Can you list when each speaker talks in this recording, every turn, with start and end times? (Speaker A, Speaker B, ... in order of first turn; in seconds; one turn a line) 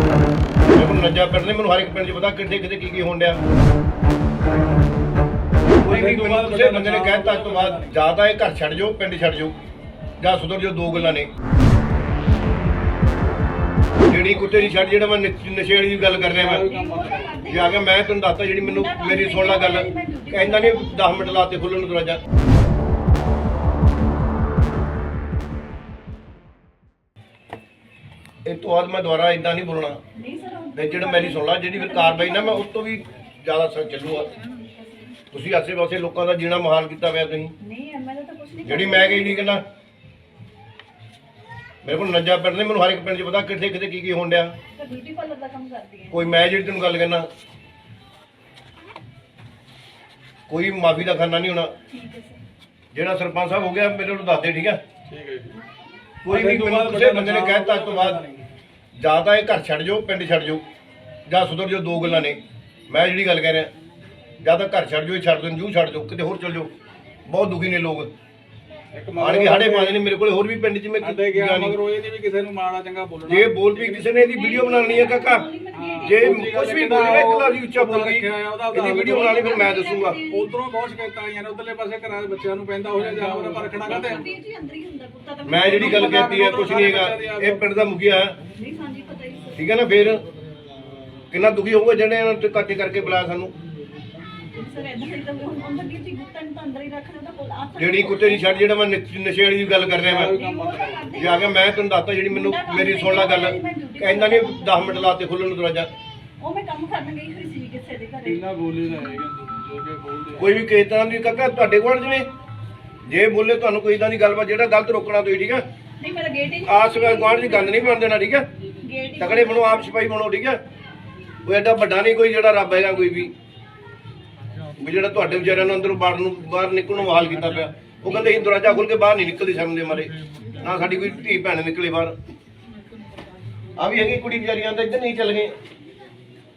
Speaker A: 0.7-3.4
Speaker A: 5.8-9.5
Speaker B: 5.8-8.0
Speaker A: 10.2-11.3
Speaker A: 14.1-16.6
Speaker B: 16.1-17.4
Speaker C: 16.5-17.8
Speaker A: 17.5-22.2
Speaker C: 18.6-21.4
Speaker A: 28.4-30.0
Speaker C: 30.1-32.7
Speaker A: 30.7-34.3
Speaker A: 35.3-37.5
Speaker C: 37.6-39.5
Speaker A: 38.6-39.6
Speaker A: 41.8-44.5
Speaker C: 44.7-46.3
Speaker A: 46.1-47.3
Speaker A: 50.5-51.7
Speaker C: 51.9-52.4
Speaker A: 52.9-54.8
Speaker B: 55.0-55.6
Speaker A: 56.2-58.2
Speaker B: 56.2-58.5
Speaker A: 59.0-60.6
Speaker A: 61.3-63.7
Speaker A: 64.4-66.7
Speaker A: 67.3-68.1
Speaker B: 68.9-70.0
Speaker A: 69.2-71.7
Speaker B: 71.0-74.0
Speaker A: 73.3-75.5
Speaker C: 74.1-76.5
Speaker B: 75.7-79.6
Speaker A: 76.0-80.2
Speaker C: 79.2-80.5
Speaker B: 80.3-84.2
Speaker C: 83.4-86.3
Speaker A: 85.5-88.3
Speaker B: 85.7-87.8
Speaker C: 88.5-89.6
Speaker A: 89.5-90.2
Speaker A: 91.3-93.5
Speaker C: 94.5-98.7
Speaker A: 97.8-100.3
Speaker B: 99.9-101.1
Speaker C: 100.2-101.5
Speaker A: 101.2-105.9
Speaker C: 102.3-105.1
Speaker C: 106.4-109.2
Speaker B: 108.2-110.6
Speaker A: 110.4-112.3
Speaker A: 113.1-115.6
Speaker C: 116.0-118.0
Speaker A: 116.6-118.5
Speaker C: 118.8-120.0
Speaker A: 119.2-120.6
Speaker A: 121.5-123.3
Speaker A: 124.8-132.1
Speaker C: 128.1-128.8
Speaker A: 133.8-135.5